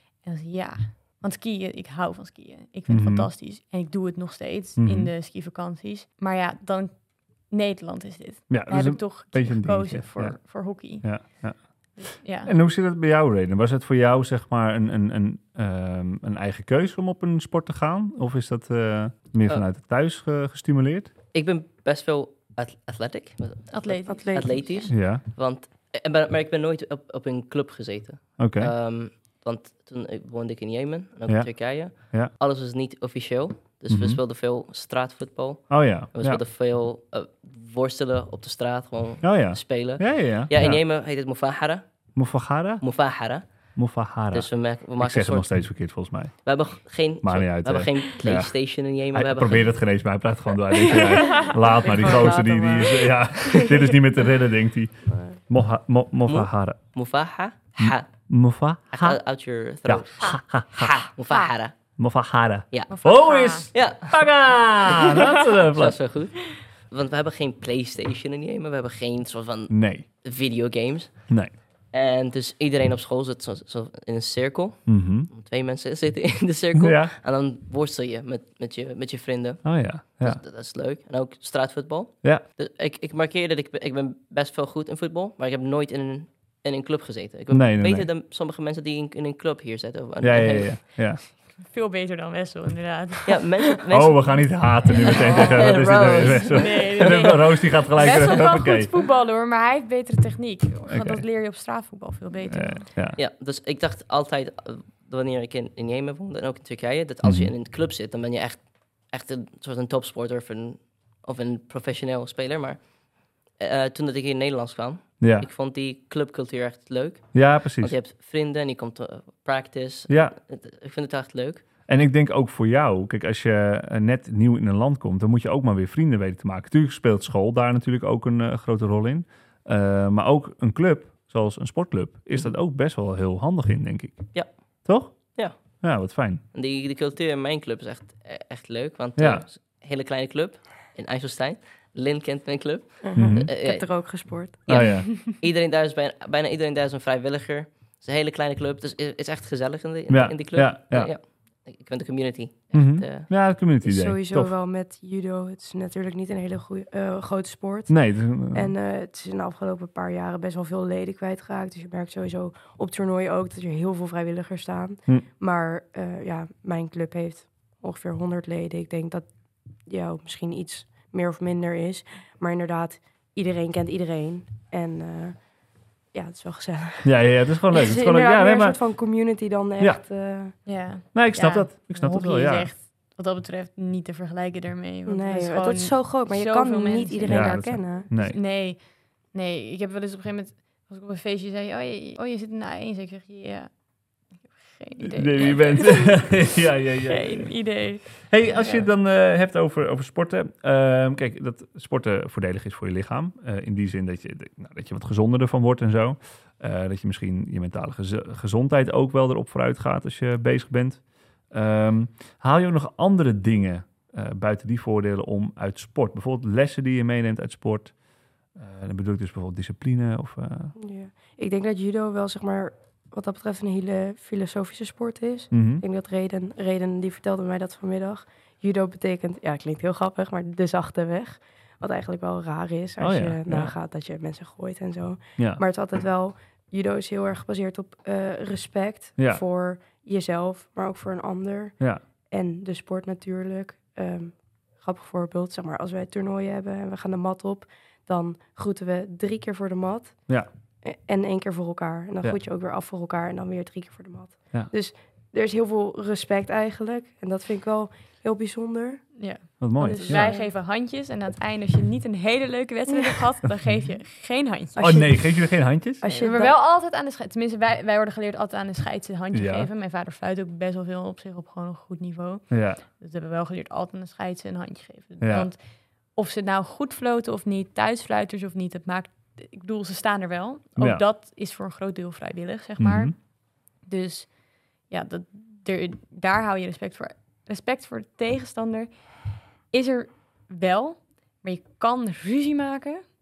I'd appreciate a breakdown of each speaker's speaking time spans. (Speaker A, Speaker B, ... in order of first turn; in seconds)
Speaker A: 0.2-11.4, 12.0-12.5, 23.7-24.9, 62.9-63.7, 91.4-93.5, 94.9-102.9, 180.7-193.7, 194.3-198.9, 259.2-265.1, 266.1-275.6, 276.1-283.3, 283.8-289.2, 289.7-293.0
Speaker B: 2.9-3.3, 4.8-5.1, 8.5-21.1, 24.9-25.2, 28.4-28.7, 31.3-32.3, 33.9-34.2, 35.7-36.4, 39.2-40.8, 42.1-42.9, 43.8-46.5, 47.2-56.8, 57.8-59.2, 59.9-61.0, 62.0-66.0, 69.7-70.0, 74.9-75.3, 76.8-77.1, 79.6-80.4, 87.5-88.1, 90.2-91.2, 93.9-98.9, 100.9-101.2, 102.5-103.2, 107.2-107.5, 115.2-115.5, 117.3-117.9, 120.1-120.4, 121.9-134.3, 134.8-136.4, 139.2-139.4, 143.2-143.5, 144.7-145.2, 150.1-151.1, 152.7-154.5, 157.9-158.7, 177.0-178.8, 181.1-182.7, 187.3-188.4, 195.0-217.9, 218.6-220.8, 225.5-225.8, 233.0-233.7, 239.2-239.4, 259.6-260.3, 264.8-266.0, 269.3-269.7, 272.5-272.8, 275.2-275.5, 280.8-281.0, 282.8-283.1
Speaker C: 21.3-41.9, 42.8-43.8, 44.3-45.7, 46.4-49.8, 51.8-52.5, 56.3-58.1, 58.9-61.9, 63.7-90.8, 93.3-98.4, 103.2-112.8, 113.5-121.7, 134.3-135.8, 136.5-153.3
Speaker D: 24.1-24.9, 51.6-53.6, 55.1-55.4, 143.0-144.6, 153.8-169.3, 169.8-175.5, 176.1-180.6, 185.1-188.1, 220.8-260.5, 264.8-266.6